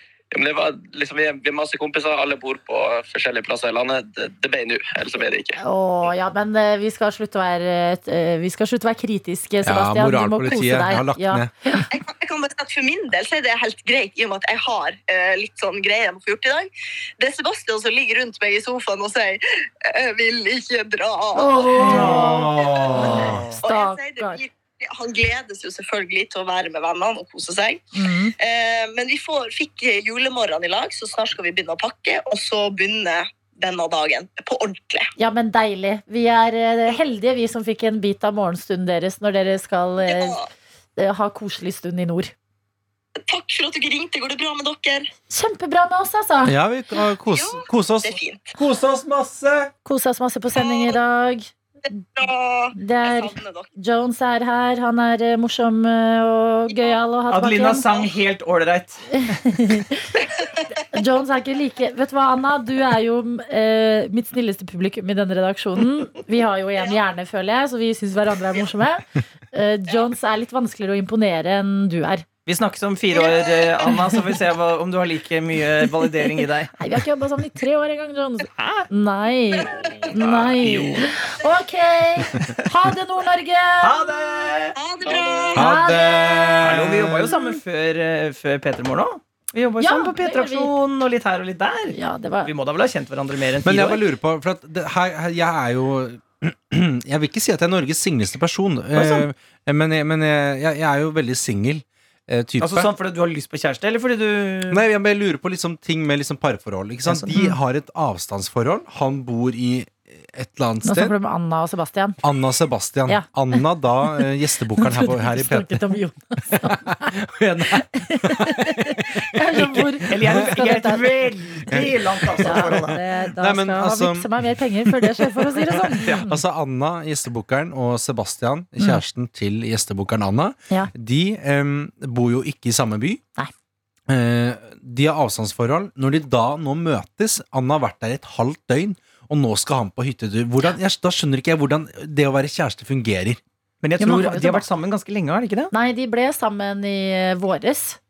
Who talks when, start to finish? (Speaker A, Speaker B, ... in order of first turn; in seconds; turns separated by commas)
Speaker A: 0.3-5.6, Speaker B: 5.6-11.9, Speaker C: 9.7-11.5, Speaker D: 11.9-21.8, Speaker B: 21.4-22.5, Speaker E: 21.8-22.3, Speaker C: 21.8-23.4, Speaker E: 23.0-23.6, Speaker D: 23.6-27.8, Speaker B: 23.6-24.4, Speaker B: 27.9-28.3, Speaker D: 28.4-35.1, Speaker B: 35.2-40.4, Speaker D: 40.0-40.5, Speaker B: 41.0-42.3, Speaker D: 43.3-45.1, Speaker B: 45.3-46.6, Speaker C: 46.5-49.7, Speaker D: 47.3-48.5, Speaker B: 49.9-51.5, Speaker D: 50.6-50.9, Speaker D: 52.2-53.7, Speaker B: 52.8-57.9, Speaker E: 57.3-59.2, Speaker B: 59.1-60.1, Speaker B: 60.9-72.3, Speaker E: 72.5-76.7, Speaker B: 76.8-84.1, Speaker E: 78.6-78.9, Speaker E: 80.2-81.1, Speaker E: 83.8-84.8, Speaker D: 84.8-85.7, Speaker B: 85.5-86.7, Speaker C: 85.5-87.3, Speaker E: 86.6-94.0, Speaker B: 89.8-90.7, Speaker B: 91.9-92.5, Speaker C: 93.6-102.9, Speaker E: 99.0-99.3, Speaker E: 102.6-104.8, Speaker C: 104.7-111.1, Speaker E: 107.0-107.3, Speaker B: 110.8-112.2, Speaker C: 112.2-115.8, Speaker B: 113.1-113.6, Speaker B: 114.8-117.1, Speaker C: 116.5-120.3, Speaker B: 117.8-121.3, Speaker E: 120.0-123.0, Speaker C: 121.7-122.8, Speaker B: 122.4-126.4, Speaker C: 123.4-133.2, Speaker C: 134.1-143.4, Speaker E: 143.8-145.7, Speaker B: 144.0-144.7, Speaker B: 145.7-148.0